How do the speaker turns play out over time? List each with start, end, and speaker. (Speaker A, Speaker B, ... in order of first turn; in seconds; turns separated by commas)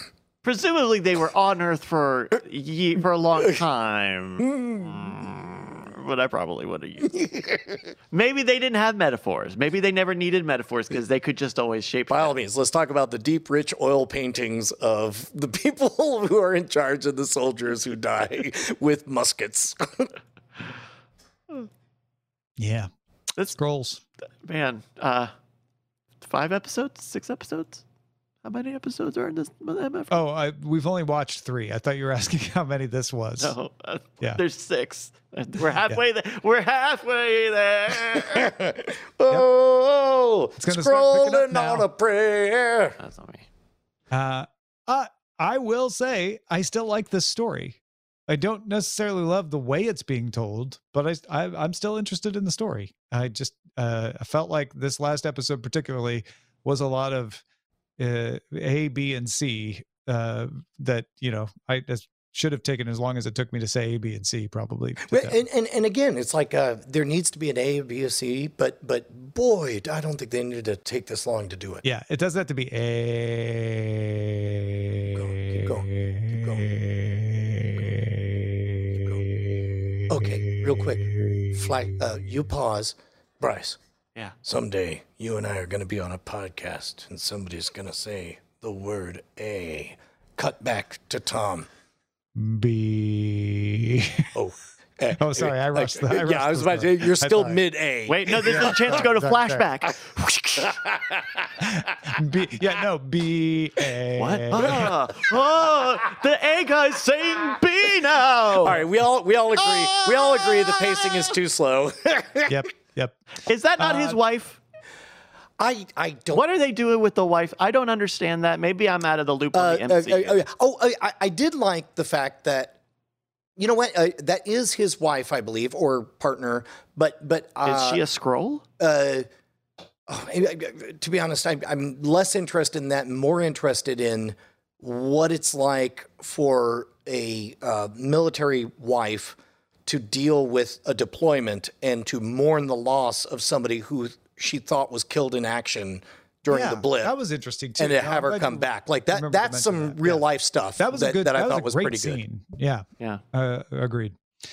Speaker A: 0.4-7.5, Speaker A: 8.1-12.3, Speaker B: 12.1-20.1, Speaker C: 22.6-22.9, Speaker C: 23.4-24.0, Speaker A: 24.4-25.3, Speaker A: 26.2-27.8, Speaker A: 28.4-30.2, Speaker C: 30.1-33.5, Speaker A: 33.4-38.5, Speaker B: 38.2-43.0, Speaker C: 40.6-41.9, Speaker A: 43.0-43.5, Speaker C: 44.1-57.4, Speaker C: 58.0-65.4, Speaker B: 65.1-71.8, Speaker C: 71.8-81.9, Speaker B: 75.2-76.7, Speaker B: 80.1-83.8, Speaker B: 84.4-91.7, Speaker C: 92.3-94.3, Speaker B: 94.3-99.1, Speaker C: 95.2-97.6, Speaker A: 98.1-100.8, Speaker C: 98.5-99.7, Speaker B: 100.6-101.4, Speaker C: 101.6-104.9, Speaker A: 104.2-108.9, Speaker B: 108.6-112.6, Speaker A: 109.7-111.3, Speaker C: 112.5-113.2, Speaker A: 113.5-114.6, Speaker C: 113.8-114.2, Speaker B: 115.6-116.4, Speaker A: 116.3-120.4, Speaker B: 119.5-122.8, Speaker B: 123.6-128.0, Speaker A: 127.6-128.6, Speaker B: 128.8-129.3, Speaker B: 130.1-147.1, Speaker C: 146.5-150.2, Speaker B: 147.8-152.2, Speaker C: 150.8-154.2